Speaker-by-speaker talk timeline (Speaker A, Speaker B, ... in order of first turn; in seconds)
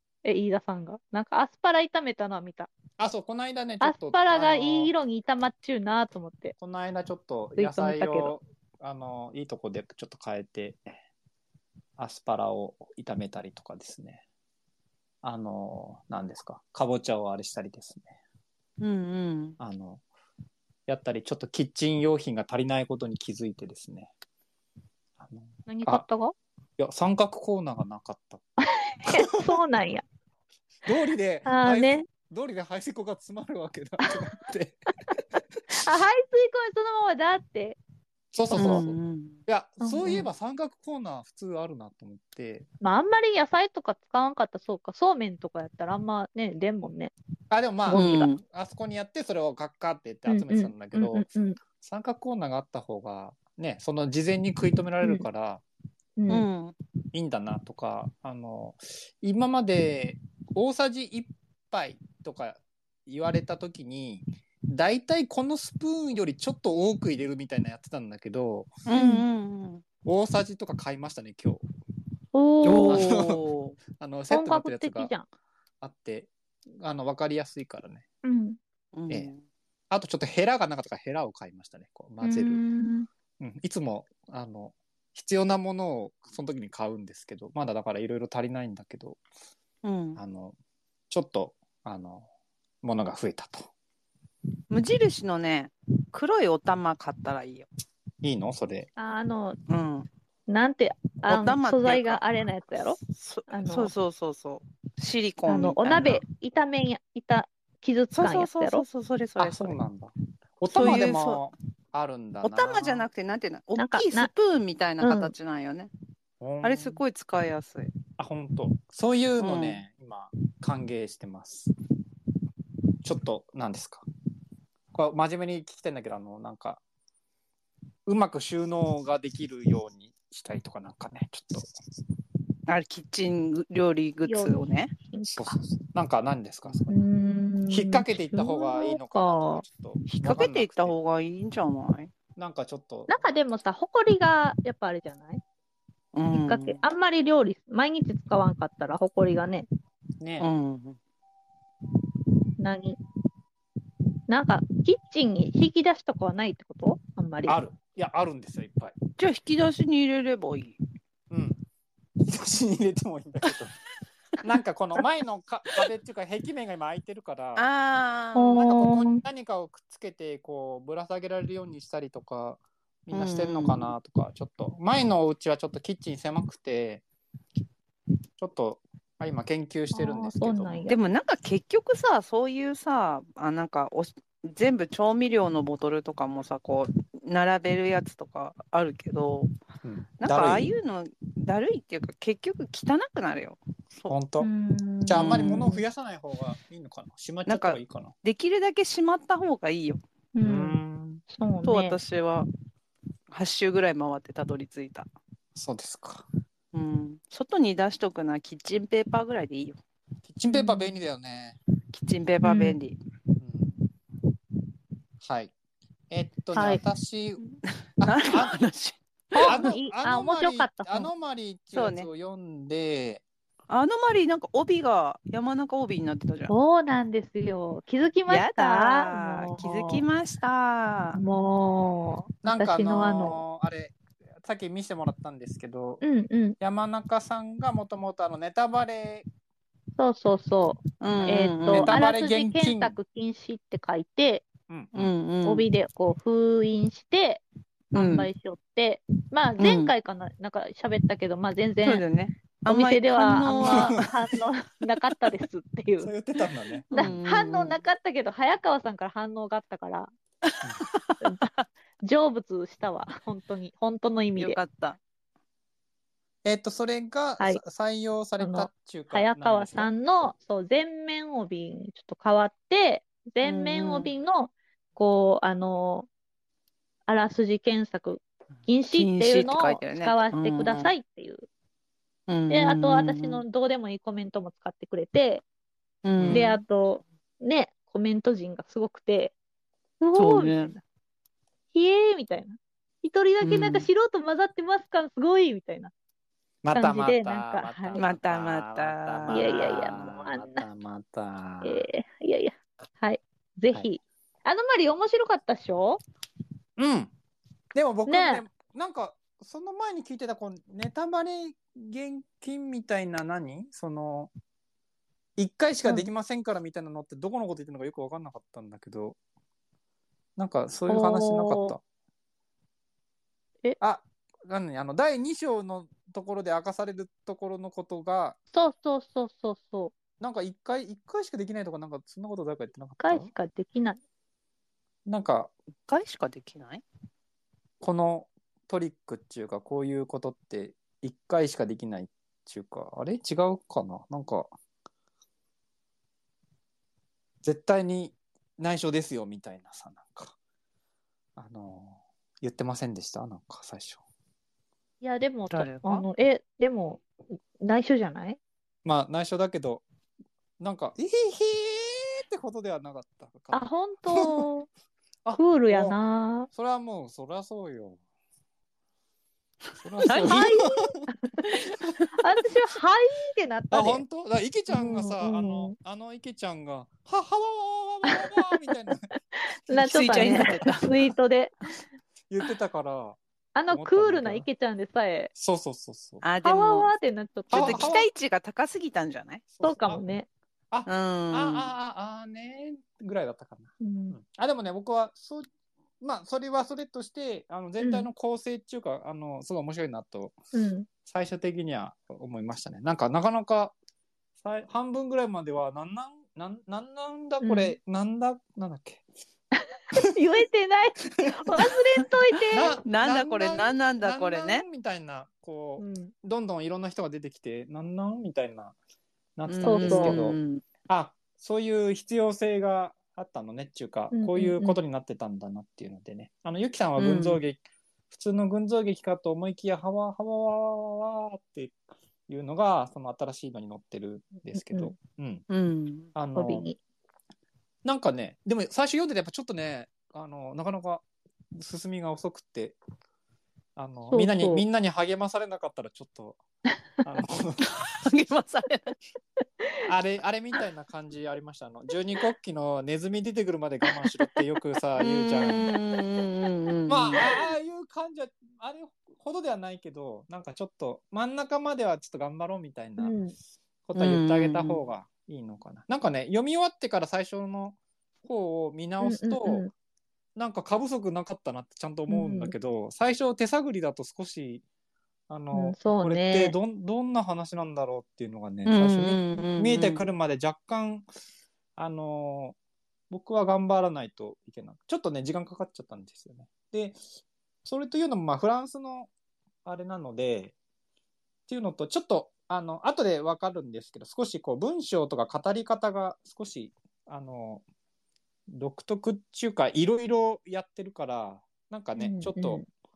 Speaker A: 0.2-2.7, 3.8-6.5, 7.6-8.3, 25.7-26.4, 28.6-30.0, 31.5-32.1, 35.7-37.8, 39.8-40.3, 42.8-47.1, 47.9-48.3, 50.3-51.6, 56.2-56.5, 68.9-69.2, 72.3-73.0, 74.3-75.3, 78.2-78.6, 82.2-83.1, 99.0-99.6, 100.5-103.0, 103.5-103.9, 105.5-108.8, 113.8-114.3, 115.0-115.3, 134.3-135.6, 136.9-139.6, 143.1-145.4, 146.3-149.7, 152.6-153.0, 154.3-157.6, 168.3-169.2, 179.9-181.0, 194.4-195.8, 200.3-202.0, 210.5-210.9, 212.4-212.8, 216.6-216.8, 219.3-221.1, 226.5-230.0, 231.2-233.4, 236.0-236.6, 240.0-244.5, 245.4-252.0, 252.7-256.1, 256.9-260.1, 261.2-261.5, 262.0-264.6, 268.4-276.1, 277.1-281.5, 282.5-285.4, 286.3-289.4, 290.0-290.8, 291.7-295.9, 296.7-298.0, 299.3-300.6, 301.6-306.0, 308.1-308.4, 320.9-321.8, 328.5-329.9, 333.0-334.0, 355.0-358.4, 363.5-364.7, 365.4-366.5, 370.2-371.6, 372.2-374.0, 374.7-375.7, 379.4-381.5, 383.6-385.3, 386.4-387.9, 389.6-390.3, 393.8-394.2, 397.8-398.1, 400.5-400.9, 407.4-407.8, 409.6-412.8, 415.8-416.1, 419.7-420.2, 424.1-424.8, 434.5-435.0, 436.3-436.8, 444.1-444.6, 463.0-463.4, 469.0-469.7, 472.1-472.5, 475.5-476.6, 502.0-502.6
Speaker B: 3.0-4.9, 6.6-10.8, 12.0-14.2, 15.2-18.1, 19.6-20.0, 20.9-24.1, 25.2-26.1, 26.8-28.4, 29.1-29.5, 30.9-34.8, 38.3-39.0, 39.5-42.7, 47.5-51.3, 51.8-55.6, 57.1-68.7, 70.0-71.6, 72.8-73.4, 73.9-75.1, 75.8-78.0, 79.9-82.6, 83.4-89.2, 90.2-90.6, 91.1-92.3, 92.8-93.7, 98.2-98.9, 109.4-113.1, 116.4-117.0, 118.2-121.7, 123.0-124.0, 124.9-126.8, 128.1-131.7, 135.3-137.0, 137.7-141.0, 142.4-143.2, 150.2-150.5, 157.5-159.0, 161.3-161.6, 162.2-163.7, 164.4-167.7, 168.5-177.0, 178.4-180.8, 189.8-190.7, 194.1-194.5, 195.1-198.1, 200.4-201.2, 205.6-206.3, 210.3-211.6, 213.4-213.8, 215.2-215.5, 216.1-217.4, 218.0-218.6, 219.4-223.2, 232.4-236.0, 236.6-239.3, 241.7-243.0, 244.7-245.1, 253.7-254.1, 256.0-257.2, 266.4-269.9, 286.2-286.5, 296.6-301.9, 306.8-307.1, 307.7-314.3, 315.4-319.2, 320.4-321.8, 323.8-328.4, 330.2-333.3, 335.1-335.5, 337.8-344.5, 347.4-350.4, 351.4-354.0, 358.9-359.9, 360.6-364.5, 365.2-366.0, 366.5-368.0, 369.8-371.1, 373.7-379.0, 379.7-380.8, 382.3-383.2, 383.7-384.5, 385.4-386.2, 387.5-388.1, 389.5-390.0, 390.7-395.5, 396.0-400.4, 401.1-403.8, 404.4-409.1, 412.5-418.8, 419.4-427.6, 428.1-435.4, 436.2-436.7, 437.8-442.8, 443.8-446.4, 447.0-447.7, 449.8-455.7, 456.9-463.1, 463.9-469.7, 470.4-474.6, 475.3-481.1, 481.8-482.6, 483.1-487.0, 487.6-489.1, 489.6-490.6, 491.5-497.6, 498.5-502.6
Speaker C: 18.8-19.6, 38.5-39.4, 47.9-48.4, 56.3-56.8, 68.9-69.8, 72.6-73.8, 78.9-79.4, 89.8-90.2, 94.7-97.7, 99.7-100.1, 101.2-106.2, 108.1-109.8, 110.8-111.4, 112.4-115.9, 116.6-117.9, 119.4-119.8, 132.7-134.9, 140.1-142.1, 146.1-146.8, 150.4-151.0, 159.2-160.8, 167.6-168.6, 173.1-173.9, 180.9-189.5, 190.2-194.2, 195.2-195.6, 197.5-200.0, 201.6-202.5, 203.3-205.1, 206.7-209.8, 211.9-213.0, 218.0-219.6, 221.7-222.1, 223.7-226.5, 228.3-231.2, 241.0-241.9, 244.9-245.7, 247.9-248.3, 249.6-249.9, 251.8-254.1, 256.9-257.8, 260.4-261.3, 264.4-265.0, 273.4-274.1, 278.9-280.9, 282.3-283.4, 286.0-286.6, 290.1-290.7, 293.4-293.9, 298.0-300.1, 335.9-336.8, 355.5-356.1, 370.1-370.4, 371.6-372.1, 379.8-380.9, 386.2-386.9, 387.5-389.5, 390.9-391.7, 412.9-414.6, 419.5-420.6, 427.0-427.4, 435.5-436.1, 447.6-449.0, 455.0-457.2, 464.0-464.8, 478.7-480.1